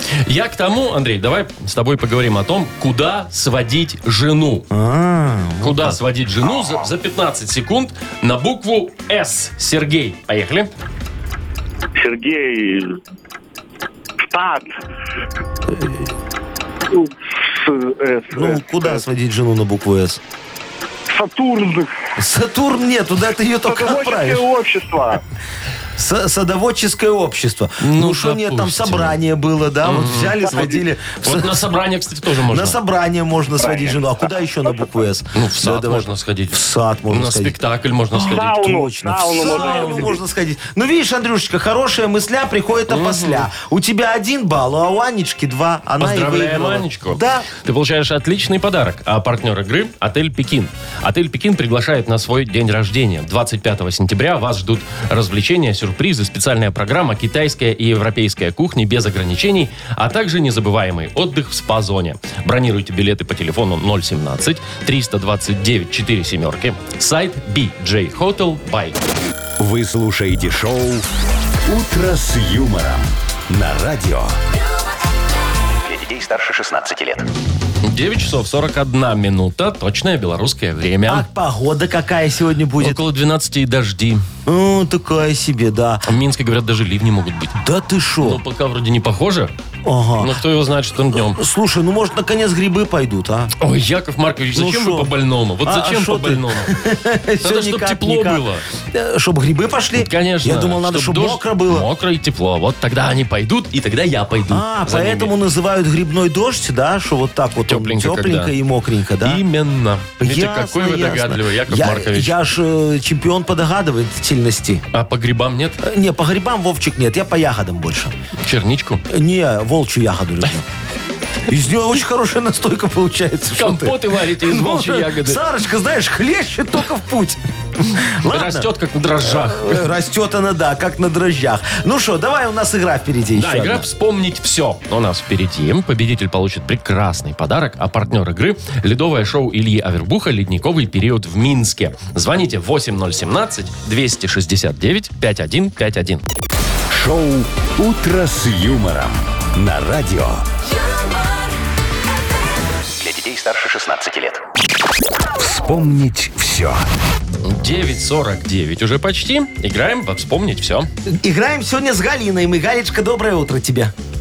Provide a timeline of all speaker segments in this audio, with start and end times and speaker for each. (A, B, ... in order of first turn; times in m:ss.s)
0:00.2-0:04.7 A
0:04.7-0:06.0 B
0:05.6-0:10.7 A
0:12.0-0:13.0 C
0:14.2-0:14.7 C
0:16.9-0:19.0 C
0:18.3-0:20.2 B
0:21.1-0:21.9 C
0:22.2-0:24.4 B
0:23.6-0:25.2 C
0:26.0-0:31.6 B
0:27.8-0:29.2 A
0:29.8-0:30.5 A
0:30.4-0:30.8 C
0:31.2-0:32.8 A
0:32.4-0:37.5 B
0:33.6-0:34.0 C
0:35.3-0:38.5 A
0:38.1-0:40.2 C
0:38.3-0:47.5 B
0:39.4-0:40.0 A
0:42.9-0:43.5 A
0:46.0-1:09.0 A
1:09.6-1:11.0 D
1:11.6-1:14.4 D
1:15.8-1:17.3 E
1:17.8-1:21.2 A
1:21.0-1:23.0 B
1:22.8-1:24.2 A
1:24.4-1:26.0 B
1:26.1-1:27.6 A
1:27.6-1:28.4 B
1:28.2-1:29.5 A
1:29.8-1:30.4 B
1:30.2-1:31.4 A
1:31.1-1:33.5 B
1:33.6-1:36.7 A
1:34.5-1:35.1 B
1:35.6-1:41.9 B
1:37.4-1:38.6 A
1:40.0-1:45.3 A
1:44.5-1:49.4 B
1:47.6-1:48.5 A
1:49.2-1:52.4 A
1:50.2-1:54.8 B
1:54.9-1:55.8 A
1:55.8-1:58.1 B
1:58.4-1:59.0 A
1:59.1-2:00.6 B
2:01.5-2:08.7 B
2:03.6-2:05.4 A
2:08.2-2:09.9 A
2:09.2-2:13.9 B
2:13.4-2:26.2 A
2:26.9-2:30.4 D
2:33.0-2:34.4 E
2:35.4-2:36.8 D
2:37.4-2:40.9 A
2:41.1-2:43.9 B